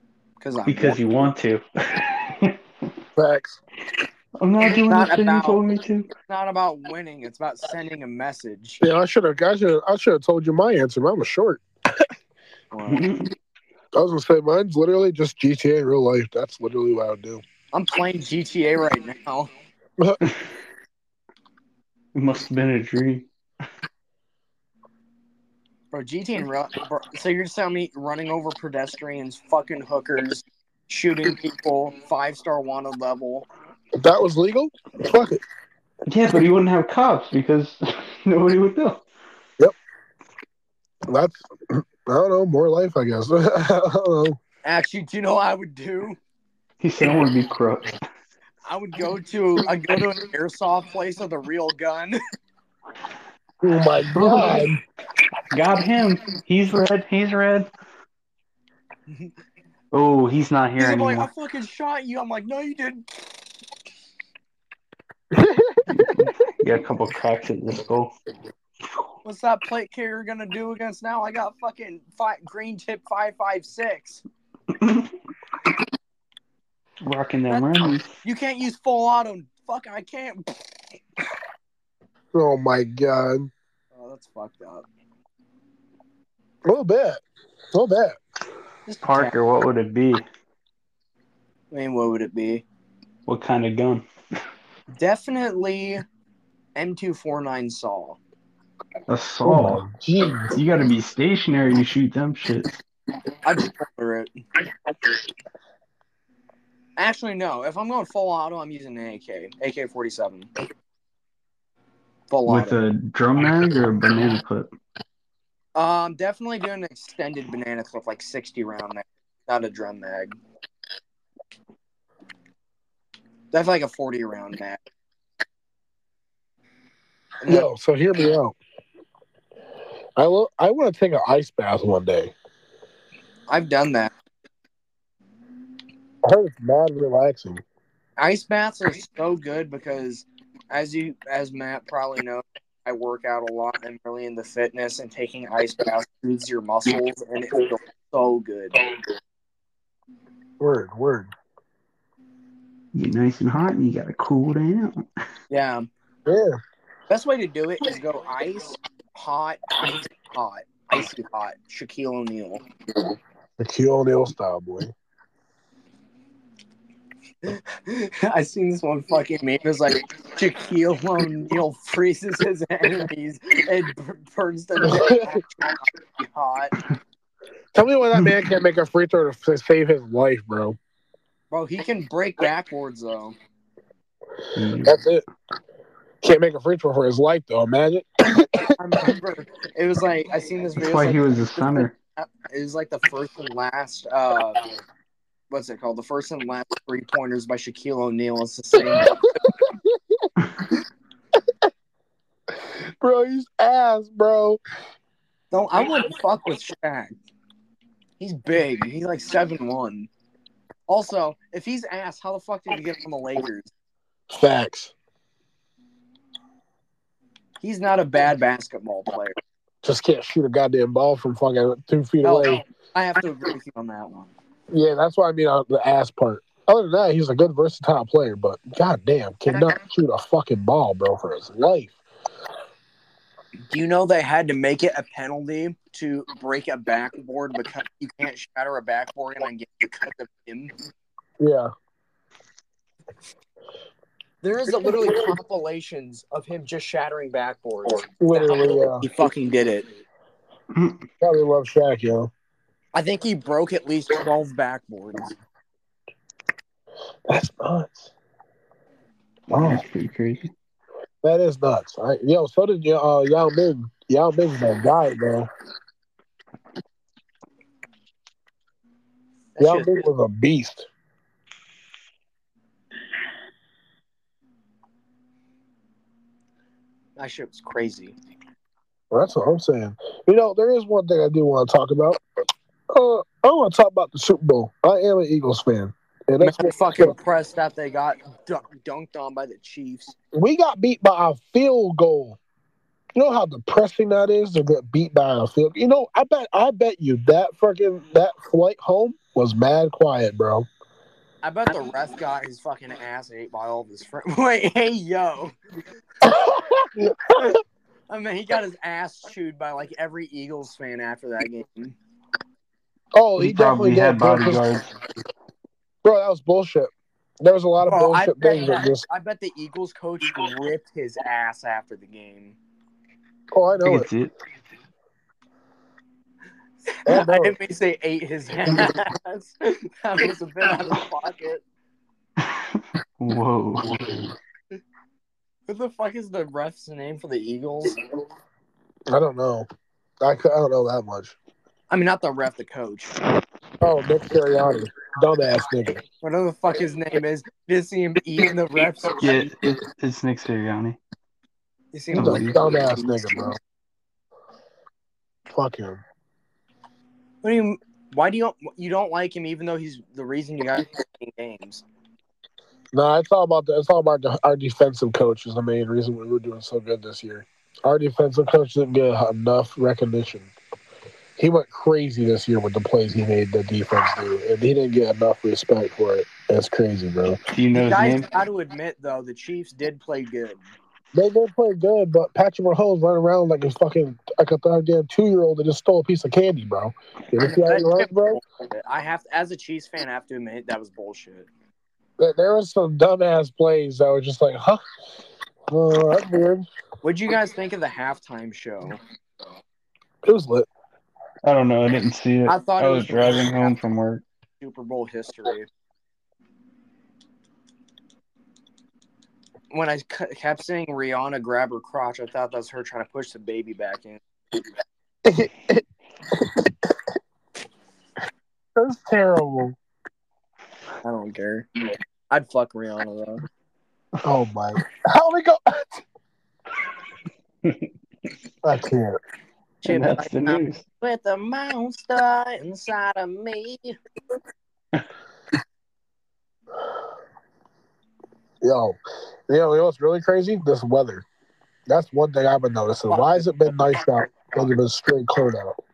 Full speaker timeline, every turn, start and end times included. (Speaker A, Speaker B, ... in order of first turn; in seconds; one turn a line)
Speaker A: 0.4-1.3
Speaker B: 0.7-2.5
Speaker C: 3.2-3.6
Speaker B: 4.4-6.1
Speaker A: 4.6-5.6
Speaker A: 6.3-8.8
Speaker C: 8.8-12.1
Speaker A: 12.7-13.0
Speaker B: 12.9-13.3
Speaker C: 13.9-17.4
Speaker A: 17.7-19.5
Speaker B: 22.1-23.3
Speaker A: 25.9-33.5
Speaker C: 34.0-35.4
Speaker B: 36.1-39.0
Speaker C: 41.1-44.4
Speaker A: 44.6-46.2
Speaker B: 46.8-48.0
Speaker A: 48.6-52.2
Speaker C: 53.6-54.8
Speaker B: 54.1-54.7
Speaker B: 55.5-57.7
Speaker B: 59.9-61.3
Speaker A: 60.8-63.1
Speaker C: 65.3-66.1
Speaker B: 65.9-68.1
Speaker A: 69.2-74.2
Speaker B: 74.8-75.1
Speaker B: 77.0-78.1
Speaker A: 78.2-80.8
Speaker C: 82.3-83.5
Speaker A: 83.9-84.8
Speaker C: 86.7-87.2
Speaker C: 87.7-88.2
Speaker A: 88.9-89.3
Speaker B: 89.0-90.3
Speaker A: 91.7-92.6
Speaker B: 93.3-94.0
Speaker A: 94.9-96.0
Speaker A: 96.8-98.2
Speaker B: 99.1-99.8
Speaker C: 99.4-100.5
Speaker B: 100.5-102.8
Speaker A: 103.4-104.3
Speaker A: 107.0-110.5
Speaker A: 112.3-112.8
Speaker B: 112.5-114.7
Speaker A: 115.8-120.4
Speaker A: 123.5-124.8
Speaker A: 127.4-127.7
Speaker C: 127.5-128.6
Speaker C: 130.2-132.3
Speaker A: 133.5-134.1
Speaker C: 136.2-137.6
Speaker A: 138.2-148.8
Speaker C: 150.6-151.3
Speaker B: 152.9-155.1
Speaker A: 155.5-155.9
Speaker C: 156.3-156.6
Speaker A: 157.1-162.6
Speaker C: 163.6-164.9
Speaker A: 167.4-176.7
Speaker C: 174.8-175.4
Speaker C: 177.7-180.8
Speaker A: 181.5-183.4
Speaker B: 184.5-185.1
Speaker C: 184.9-185.2
Speaker C: 186.2-188.7
Speaker A: 188.8-194.6
Speaker B: 190.8-191.9
Speaker A: 195.5-199.2
Speaker C: 198.9-200.3
Speaker C: 203.0-204.6
Speaker A: 205.5-207.2
Speaker A: 208.2-210.1
Speaker A: 210.9-213.7
Speaker C: 214.3-214.9
Speaker A: 217.6-219.4
Speaker C: 219.8-222.6
Speaker A: 222.2-224.3
Speaker C: 224.7-232.0
Speaker A: 233.7-240.7
Speaker C: 241.4-241.7
Speaker A: 244.4-249.9
Speaker C: 248.2-249.1
Speaker B: 250.8-251.0
Speaker C: 251.2-252.3
Speaker A: 252.9-255.3
Speaker C: 257.3-258.1
Speaker B: 259.5-260.5
Speaker C: 259.5-259.8
Speaker C: 261.2-265.5
Speaker A: 269.6-270.1
Speaker C: 269.6-270.9
Speaker A: 277.2-278.2
Speaker C: 279.1-282.2
Speaker C: 282.9-287.2
Speaker A: 286.4-290.1
Speaker C: 290.3-292.4
Speaker C: 293.1-300.7
Speaker A: 301.4-305.6
Speaker C: 306.2-307.6
Speaker A: 308.1-311.9
Speaker C: 313.1-314.7
Speaker B: 313.4-314.9
Speaker C: 316.0-319.1
Speaker A: 317.9-322.6
Speaker C: 323.5-324.1
Speaker B: 323.8-324.3
Speaker A: 326.9-331.6
Speaker C: 327.1-327.6
Speaker B: 333.2-334.0
Speaker A: 335.7-338.0
Speaker C: 339.1-339.7
Speaker C: 340.2-341.4
Speaker A: 341.9-343.2
Speaker C: 343.8-346.0
Speaker A: 346.2-349.5
Speaker B: 349.2-351.0
Speaker A: 351.9-353.5
Speaker B: 352.1-352.6
Speaker C: 352.1-353.6
Speaker C: 355.5-356.0
Speaker A: 357.4-361.8
Speaker C: 362.9-370.5
Speaker C: 371.4-377.4
Speaker B: 377.5-378.3
Speaker A: 377.8-380.7
Speaker C: 381.1-388.4
Speaker A: 387.4-391.5
Speaker C: 392.2-394.8
Speaker C: 395.7-396.7
Speaker A: 397.0-399.0
Speaker C: 400.2-400.7
Speaker B: 401.4-404.2
Speaker A: 402.5-403.9
Speaker A: 404.6-405.7
Speaker A: 409.7-414.2
Speaker C: 415.2-417.0
Speaker C: 418.8-419.8
Speaker A: 421.0-423.4
Speaker C: 424.2-426.0
Speaker C: 428.6-429.2
Speaker A: 429.8-434.0
Speaker B: 429.9-430.8
Speaker C: 438.6-441.3
Speaker C: 441.9-445.8
Speaker A: 443.1-443.8